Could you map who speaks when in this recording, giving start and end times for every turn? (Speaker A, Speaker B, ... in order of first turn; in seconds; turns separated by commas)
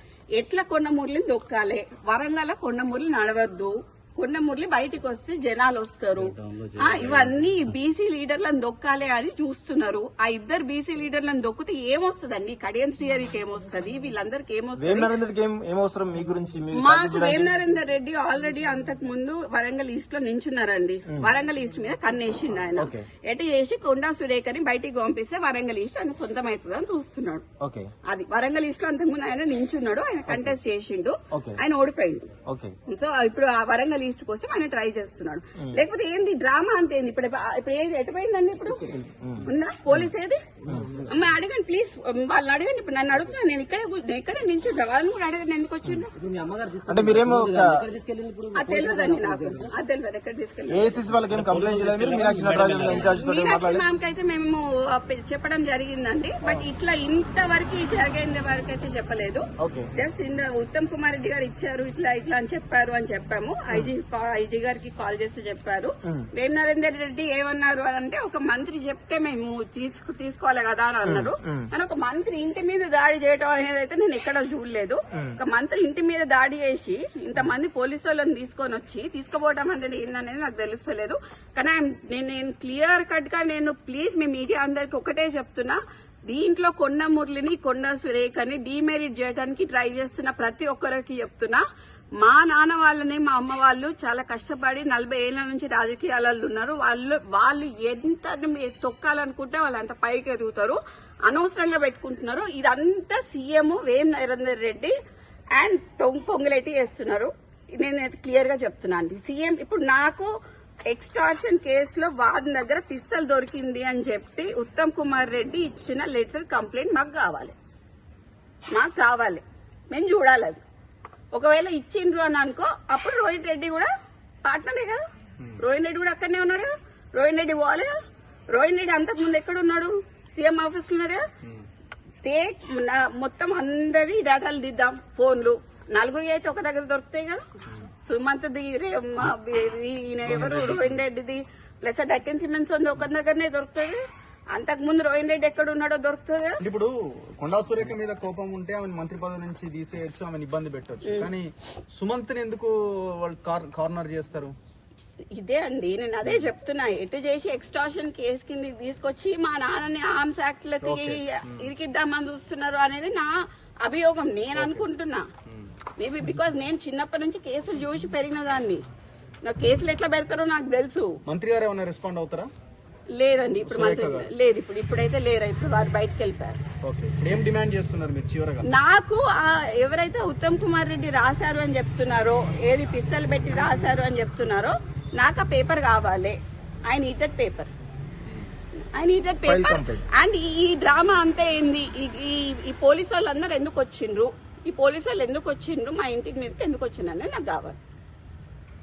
Speaker A: 0.4-15.1, Speaker B: 6.3-7.3, Speaker C: 14.8-17.5, Speaker A: 16.8-27.4, Speaker C: 22.8-23.1, Speaker C: 27.6-27.9, Speaker A: 28.1-32.3, Speaker C: 31.3-31.6, Speaker C: 32.5-32.8, Speaker A: 32.9-40.4, Speaker C: 38.9-40.1, Speaker B: 40.6-41.1, Speaker A: 41.1-46.1, Speaker B: 46.1-49.7, Speaker C: 46.9-47.8, Speaker A: 48.5-51.0, Speaker C: 50.7-53.9, Speaker B: 51.3-53.1, Speaker A: 52.9-91.6, Speaker C: 59.6-59.9, Speaker C: 71.0-71.7, Speaker A: 92.2-105.0, Speaker A: 105.5-110.3, Speaker A: 110.9-117.6, Speaker A: 118.7-120.6, Speaker A: 121.3-123.9, Speaker A: 124.5-125.0, Speaker A: 125.6-127.9, Speaker A: 128.5-131.2, Speaker A: 132.2-137.4, Speaker A: 138.1-144.0, Speaker D: 140.4-140.9, Speaker A: 144.5-146.6, Speaker D: 146.6-154.5, Speaker A: 155.4-163.3, Speaker D: 160.8-161.7, Speaker A: 163.8-165.2, Speaker D: 164.6-164.9, Speaker D: 165.5-165.7, Speaker A: 166.0-168.8, Speaker A: 169.4-171.2, Speaker D: 171.3-172.5, Speaker A: 173.2-176.6, Speaker D: 173.7-174.3, Speaker D: 176.8-178.7, Speaker A: 178.7-187.7, Speaker A: 188.9-197.8, Speaker C: 189.4-190.0